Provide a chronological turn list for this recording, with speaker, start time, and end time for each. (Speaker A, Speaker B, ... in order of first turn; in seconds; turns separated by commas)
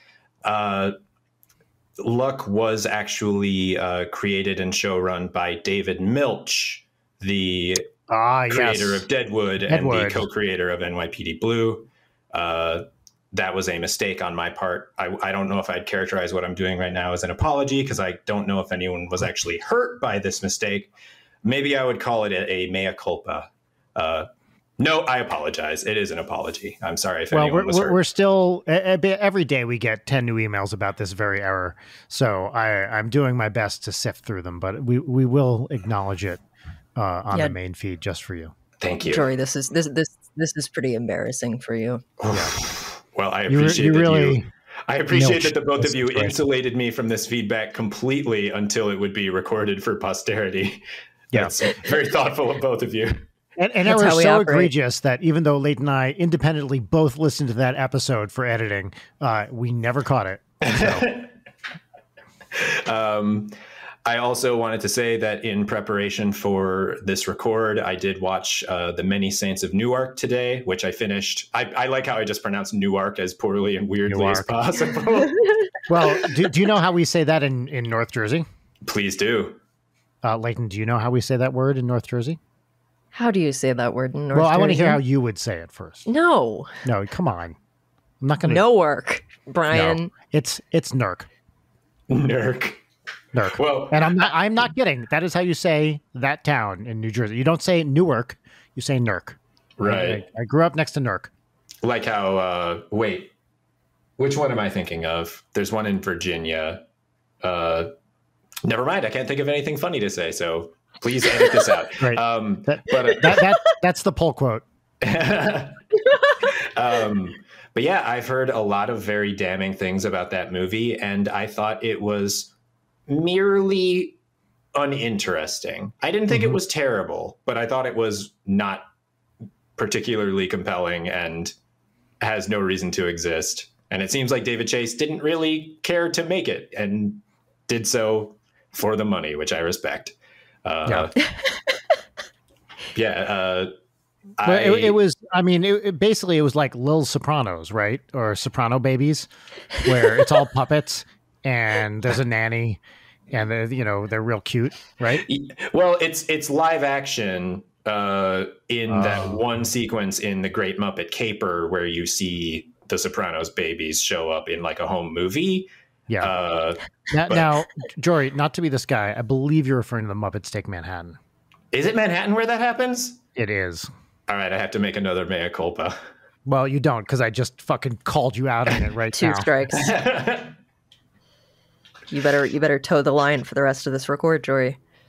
Speaker A: 0.4-0.9, Speaker A: 2.0-7.9, Speaker B: 8.1-9.1, Speaker A: 8.5-20.9, Speaker B: 9.7-10.3, Speaker A: 21.4-24.3, Speaker A: 24.8-28.0, Speaker B: 27.3-36.4, Speaker B: 37.0-38.5, Speaker A: 38.8-39.3, Speaker C: 39.0-42.0, Speaker A: 42.2-53.2, Speaker B: 43.5-44.5, Speaker B: 45.1-46.4, Speaker B: 51.3-51.6, Speaker B: 53.6-61.1, Speaker C: 53.9-54.7, Speaker A: 60.6-61.3, Speaker A: 62.5-63.5, Speaker A: 64.0-75.5, Speaker B: 74.1-74.5, Speaker B: 75.9-78.5, Speaker A: 78.8-79.6, Speaker B: 80.2-82.4, Speaker C: 83.1-85.0, Speaker B: 84.3-86.1, Speaker C: 86.0-86.8, Speaker B: 86.8-87.6, Speaker B: 88.2-88.7, Speaker C: 88.5-90.1, Speaker B: 89.7-91.3, Speaker A: 92.1-92.8, Speaker B: 93.3-101.3, Speaker A: 93.4-94.3, Speaker A: 99.8-100.2, Speaker A: 101.8-103.3, Speaker A: 104.2-106.8, Speaker A: 107.4-107.9, Speaker A: 108.6-113.4, Speaker B: 112.0-114.6, Speaker A: 115.0-115.8, Speaker A: 116.4-122.5, Speaker A: 123.1-124.2, Speaker A: 124.8-128.9, Speaker B: 126.3-126.6, Speaker A: 129.8-131.5, Speaker A: 132.2-141.3, Speaker C: 141.4-141.7, Speaker A: 142.9-143.7, Speaker A: 144.4-145.0, Speaker B: 144.4-152.8, Speaker B: 153.3-155.2, Speaker A: 155.1-165.7, Speaker B: 158.9-159.4, Speaker A: 166.2-167.6, Speaker B: 167.1-171.2, Speaker A: 171.7-173.2, Speaker B: 173.3-173.9, Speaker A: 174.3-176.0, Speaker B: 176.5-179.5, Speaker C: 179.1-179.9, Speaker A: 179.7-180.6, Speaker C: 182.1-184.8